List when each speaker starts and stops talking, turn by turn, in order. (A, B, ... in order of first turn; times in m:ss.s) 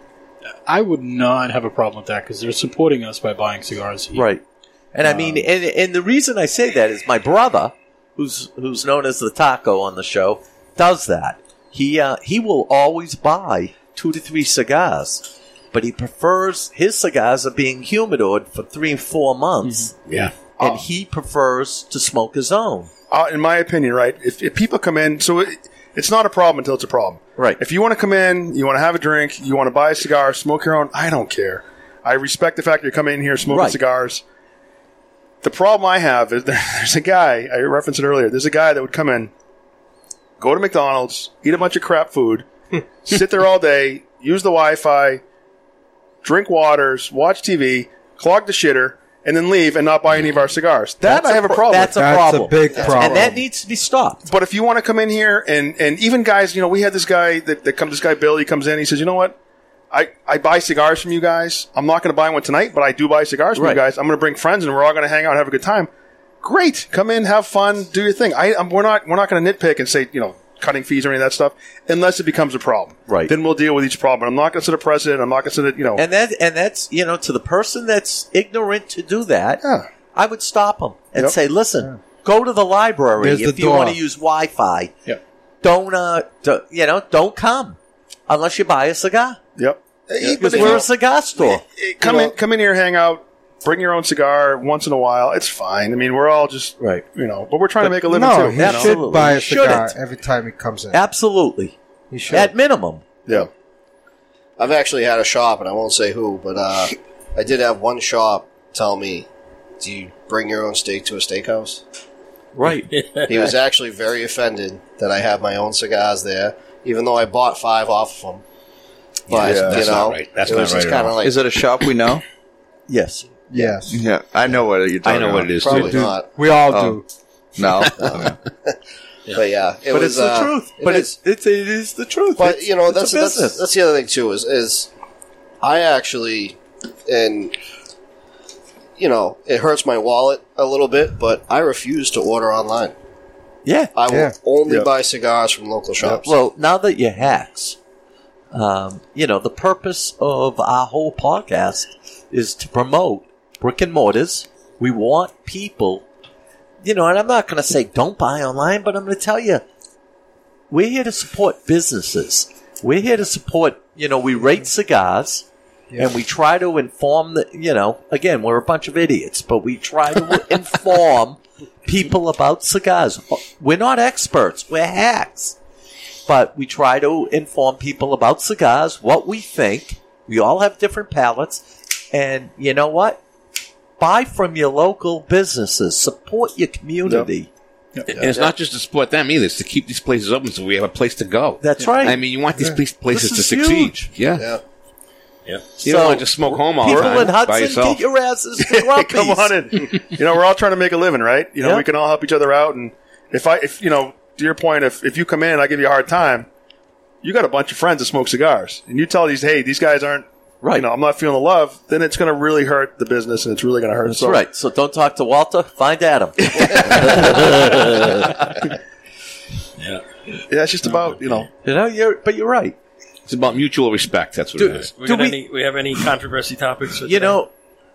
0:00.7-0:04.3 A
0:04.1-0:19.9 B
0:19.6-0:19.9 A
0:20.1-0:20.3 C
0:20.6-0:20.9 D
0:20.6-0:22.9 B
0:23.1-0:34.2 D
0:33.5-0:33.8 B
0:35.4-0:39.3 D
0:40.4-0:45.2 D
0:46.2-0:52.0 D
0:51.0-0:54.2 B
0:52.0-0:53.4 E
0:52.8-0:53.1 D
0:54.2-0:59.4 D
0:59.9-1:05.9 D
1:03.6-1:03.8 B
1:06.4-1:16.0 D
1:13.1-1:13.3 B
1:16.0-1:19.6 B
1:19.6-1:19.9 D
1:20.1-1:24.9 B
1:23.2-1:24.0 E
1:25.6-1:29.4 B
1:29.6-1:39.0 D
1:30.4-1:31.6 B
1:36.8-1:37.0 B
1:38.0-1:41.0 E
1:38.6-1:40.0 B
1:40.9-1:41.8 B
1:42.1-1:42.5 E
1:42.3-1:43.0 B
1:44.6-1:49.3 F
1:49.8-1:51.8 F
1:52.6-1:52.9 B
1:52.9-1:53.5 G
1:53.3-1:58.4 F
1:59.3-2:01.4 F
1:59.3-2:01.2 C
1:59.4-1:59.8 D
2:01.2-2:02.2 H
2:02.9-2:03.3 B
2:03.5-2:04.0 E
2:03.9-2:05.9 H
2:05.0-2:06.0 C
2:05.6-2:07.1 E
2:05.6-2:06.3 F
2:06.7-2:07.0 H
2:07.6-2:08.4 H
2:08.0-2:08.8 F
2:09.3-2:11.2 F
2:09.9-2:13.6 B
2:12.4-2:14.9 F
2:15.6-2:17.6 F
2:19.0-2:23.0 F
2:23.6-2:23.9 B
2:24.0-2:26.3 F
2:24.1-2:24.4 E
2:26.2-2:27.8 B
2:28.5-2:36.1 B
2:36.8-2:39.6 B
2:40.7-2:45.5 B
2:46.0-2:55.6 B
2:56.3-3:03.2 B
3:04.0-3:07.5 B
3:08.2-3:14.5 C
3:08.2-3:08.5 B
3:11.6-3:12.2 B
3:13.1-3:14.1 B
3:15.8-3:18.0 C
3:15.8-3:19.6 B
3:18.6-3:26.5 D
3:21.6-3:21.9 B
3:27.2-3:34.4 D
3:30.6-3:30.9 B
3:34.1-3:38.6 B
3:36.5-3:37.4 D
3:37.3-3:38.2 G
3:39.8-3:40.0 G
3:40.5-3:41.5 D
3:41.0-3:41.4 G
3:41.6-3:42.8 B
3:43.3-3:44.9 C
3:44.6-3:45.4 B
3:44.8-3:47.4 G
3:47.1-3:47.5 B